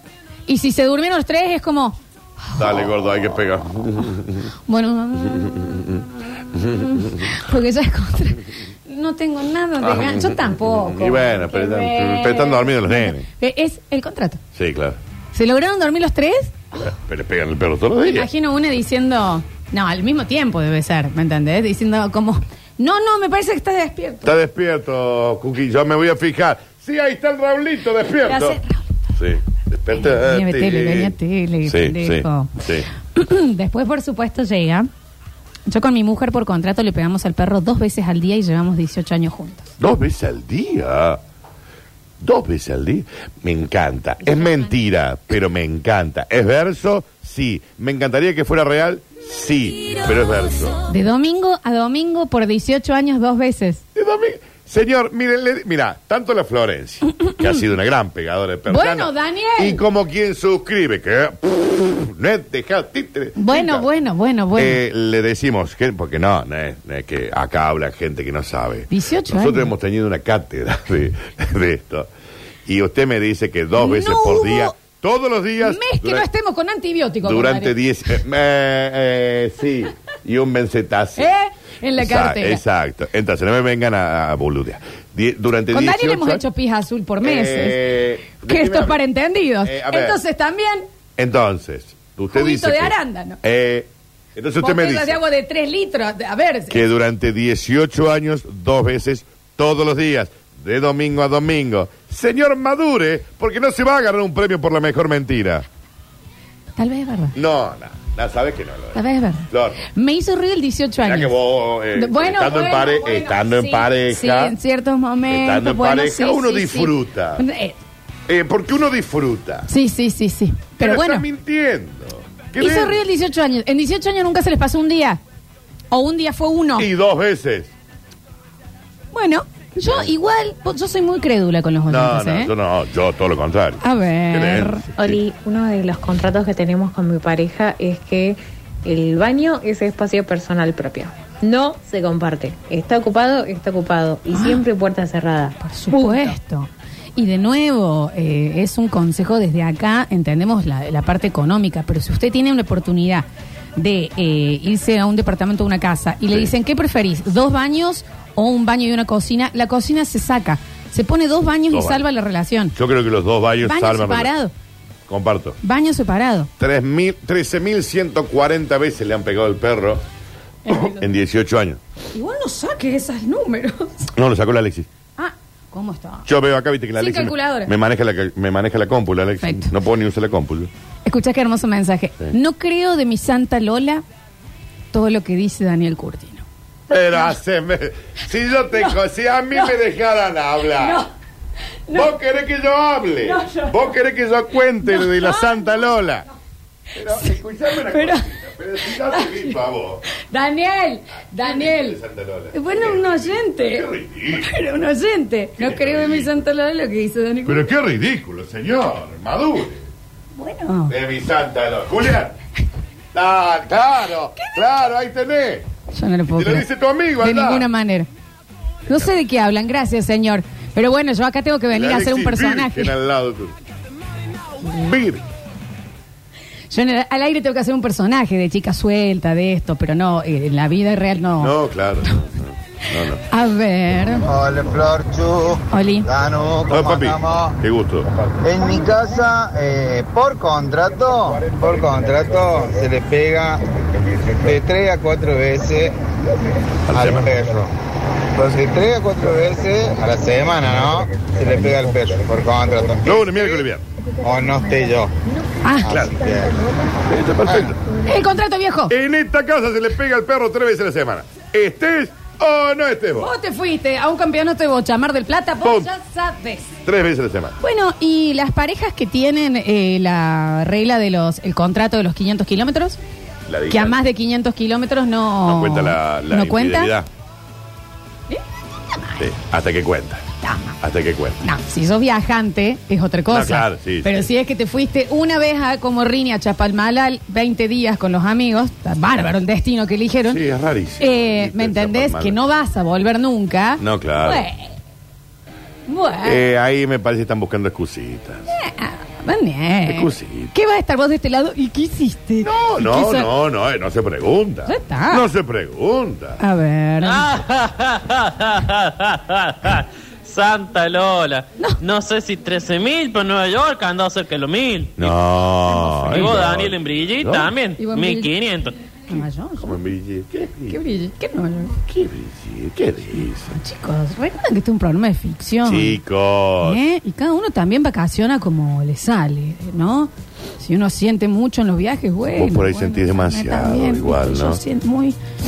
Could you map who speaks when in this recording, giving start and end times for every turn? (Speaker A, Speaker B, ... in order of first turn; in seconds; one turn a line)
Speaker A: 0.5-2.9
Speaker B: 2.5-4.5
Speaker A: 4.7-5.5
Speaker B: 5.3-7.3
Speaker A: 7.2-14.4
Speaker B: 9.8-13.2
Speaker B: 14.5-15.0
Speaker A: 15.3-16.8
Speaker B: 16.8-18.3
Speaker A: 18.0-24.3
Speaker B: 24.2-28.6
Speaker A: 28.2-29.0
Speaker B: 29.2-31.1
Speaker A: 30.0-32.5
Speaker B: 31.7-32.9
Speaker A: 33.1-34.9
Speaker A: 35.7-39.7
Speaker B: 39.8-41.2
Speaker B: 42.2-50.8
Speaker A: 50.9-53.8
Speaker B: 53.9-63.8
Speaker A: 58.7-59.8
Speaker A: 63.4-64.8
Speaker B: 64.5-72.1
Speaker A: 68.9-69.7
Speaker B: 72.7-76.2
Speaker A: 73.8-74.8
Speaker A: 75.6-77.7
Speaker B: 77.2-81.3
Speaker A: 81.2-82.6
Speaker B: 82.0-86.4
Speaker A: 85.7-87.8
Speaker B: 87.2-89.0
Speaker A: 88.4-90.8
Speaker B: 89.6-90.2
Speaker B: 91.2-95.2
Speaker A: 92.3-93.4
Speaker A: 94.6-96.8
Speaker B: 96.7-105.6
Speaker A: 106.8-107.3
Speaker B: 107.3-109.8
Speaker A: 108.9-111.3
Speaker B: 111.0-114.5
Speaker A: 111.9-117.8
Speaker B: 115.3-117.4
Speaker B: 118.3-119.7
Speaker A: 119.7-121.2
Speaker B: 120.8-123.0
Speaker A: 122.6-125.2
Speaker A: 125.9-126.9
Speaker B: 126.8-127.7
Speaker A: 129.1-132.5
Speaker B: 131.9-135.2
Speaker A: 133.8-134.8
Speaker C: 135.0-146.3
Speaker A: 144.3-144.6
Speaker A: 145.7-162.7
Speaker B: 161.7-162.0
Speaker B: 162.7-164.3
Speaker A: 163.6-164.5
Speaker B: 165.1-165.6
Speaker A: 165.6-166.5
Speaker B: 166.6-170.0
Speaker A: 170.7-171.0
Speaker B: 170.7-171.8
Speaker A: 172.1-174.1
Speaker B: 174.2-174.9
Speaker A: 175.2-176.3
Speaker B: 176.2-180.7
Speaker A: 177.0-177.7
Speaker A: 179.4-179.7
Speaker A: 181.0-184.0
Speaker A: 184.9-186.4
Speaker B: 186.9-191.0
Speaker A: 190.8-191.1
Speaker B: 191.9-196.2
Speaker A: 193.2-193.7
Speaker A: 194.9-195.8
Speaker B: 196.9-200.0
Speaker A: 197.9-198.3
Speaker A: 198.8-199.5
Speaker A: 200.1-202.0
Speaker B: 201.4-204.5
Speaker A: 202.5-203.8
Speaker A: 204.4-207.7
Speaker B: 205.6-206.3
Speaker B: 207.4-209.8
Speaker A: 210.4-210.9
Speaker B: 210.9-212.3
Speaker B: 213.1-215.7
Speaker A: 215.9-216.6
Speaker B: 216.3-217.7
Speaker A: 217.2-218.1
Speaker A: 218.9-222.9
Speaker B: 221.7-223.5
Speaker B: 224.6-225.2
Speaker A: 226.7-231.5
Speaker B: 231.4-233.2
Speaker A: 233.3-234.2
Speaker D: 234.2-237.6
Speaker A: 235.7-236.1
Speaker B: 236.7-238.1
Speaker D: 238.4-243.6
Speaker D: 244.4-245.9
Speaker D: 246.9-247.7
Speaker B: 246.9-247.3
Speaker D: 248.3-253.7
Speaker B: 253.0-253.8
Speaker D: 254.2-255.1
Speaker A: 255.6-255.9
Speaker D: 255.8-256.6
Speaker B: 255.9-256.2
Speaker B: 257.1-257.8
Speaker D: 257.4-257.7
Speaker A: 258.0-258.9
Speaker B: 258.9-263.3
Speaker A: 263.2-266.7
Speaker B: 266.9-267.5
Speaker A: 267.6-273.0
Speaker B: 273.5-274.0
Speaker A: 273.7-276.9
Speaker B: 275.5-277.1
Speaker B: 279.2-280.2
Speaker A: 280.4-280.8
Speaker B: 280.8-281.4
Speaker A: 281.4-290.4
Speaker B: 283.3-284.3
Speaker B: 290.3-292.4
Speaker A: 291.0-294.7
Speaker B: 293.8-294.4
Speaker A: 295.9-296.4
Speaker B: 296.2-298.4
Speaker A: 298.5-303.3
Speaker B: 299.9-300.5
Speaker B: 302.4-306.4
Speaker A: 304.7-305.2
Speaker A: 306.4-307.3
Speaker E: 307.0-315.1
Speaker B: 315.0-317.5
Speaker A: 315.7-316.3
Speaker E: 316.1-318.8
Speaker A: 317.8-318.3
Speaker A: 319.1-319.8
Speaker B: 319.6-320.8
Speaker A: 320.7-321.8
Speaker B: 321.9-323.5
Speaker A: 323.5-326.0
Speaker B: 325.6-326.8
Speaker A: 326.6-335.1
Speaker B: 332.3-334.6